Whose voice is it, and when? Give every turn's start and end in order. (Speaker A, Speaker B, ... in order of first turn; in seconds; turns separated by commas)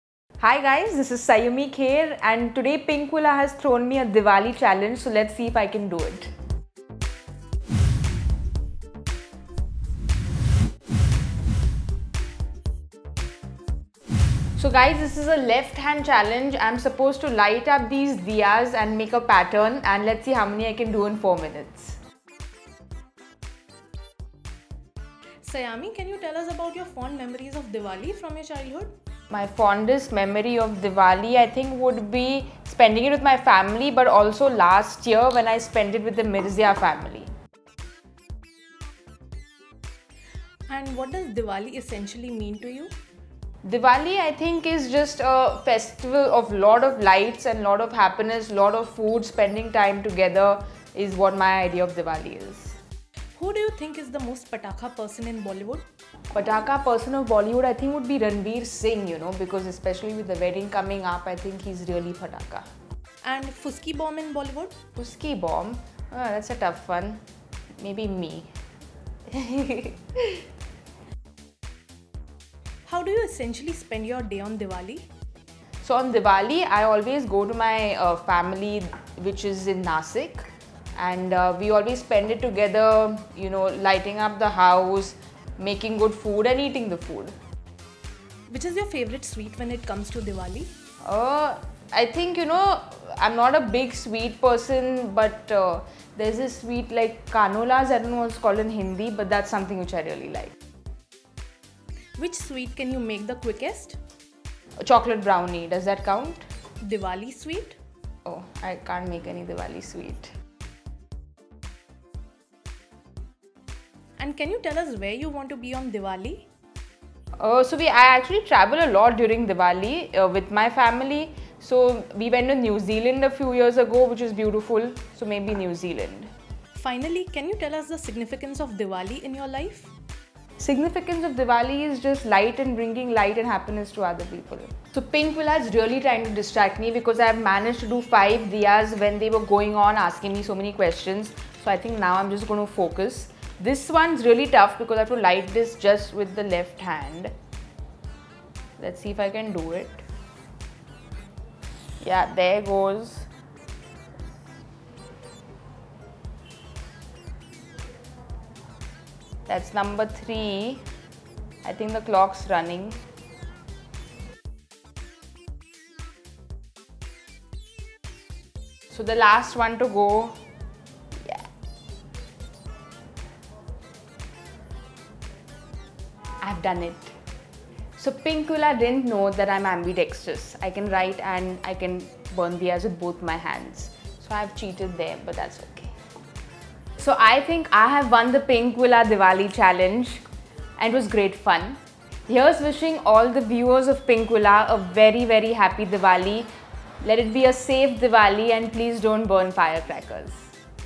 Speaker A: 0.4-6.3, Speaker A: 14.6-22.0, Speaker B: 25.4-28.9, Speaker A: 29.3-37.3, Speaker B: 40.7-42.9, Speaker A: 43.6-52.8, Speaker B: 53.3-55.9, Speaker A: 56.3-62.7, Speaker B: 63.2-64.8, Speaker A: 65.0-67.2, Speaker A: 67.8-68.5, Speaker A: 69.3-70.4, Speaker B: 72.9-75.1, Speaker A: 75.8-80.4, Speaker A: 81.0-87.3, Speaker B: 88.5-90.7, Speaker A: 91.0-100.5, Speaker B: 102.2-104.0, Speaker A: 104.8-106.4, Speaker B: 106.8-107.8, Speaker A: 108.2-110.3, Speaker B: 114.2-116.5, Speaker A: 117.4-126.3, Speaker B: 126.7-129.9, Speaker A: 130.6-147.3, Speaker A: 148.8-150.0, Speaker A: 152.0-153.3, Speaker A: 159.5-160.8, Speaker A: 161.6-163.0, Speaker A: 168.9-170.4, Speaker A: 176.4-177.1, Speaker A: 178.0-185.9, Speaker A: 187.0-190.2, Speaker A: 190.8-196.5, Speaker A: 197.0-200.5